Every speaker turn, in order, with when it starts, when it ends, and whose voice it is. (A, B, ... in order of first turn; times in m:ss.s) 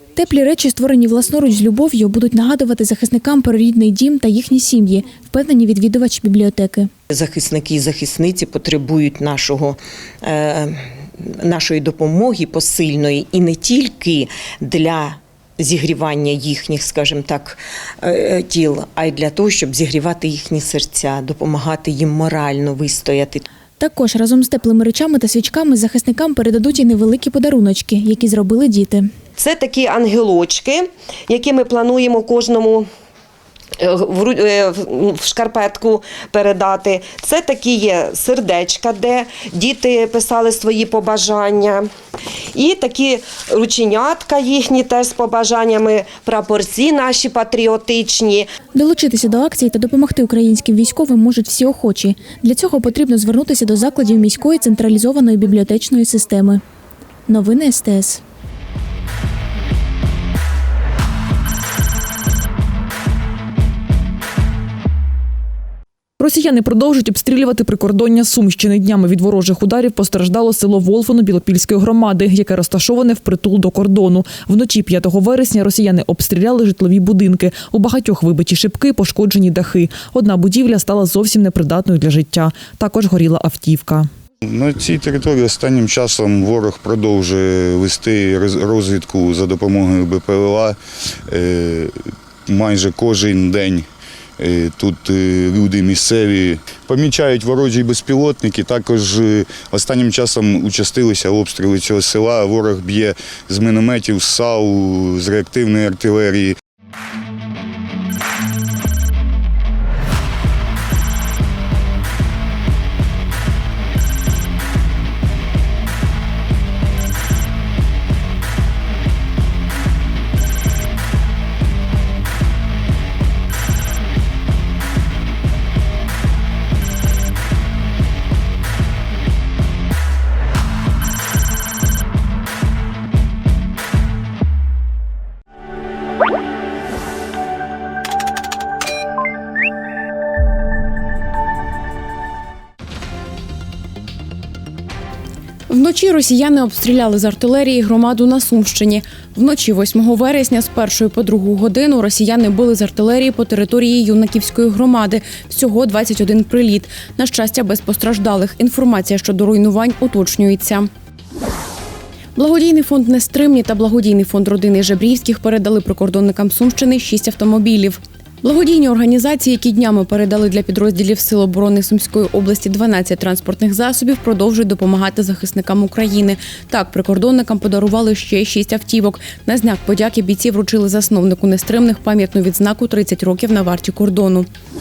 0:00.2-0:06.9 A
0:07.1-0:23.4 B
0:23.8-0:29.1 A
0:29.4-0:32.9 C
0:33.8-0:41.9 C
0:42.5-0:48.5 C
0:48.7-0:56.6 A
0:57.3-0:58.2 A
1:06.2-1:24.1 D
1:24.5-1:30.8 E
1:31.3-1:31.9 E
1:32.5-1:33.8 E
1:34.4-1:46.5 E
2:25.7-2:40.9 F
2:42.4-3:04.5 F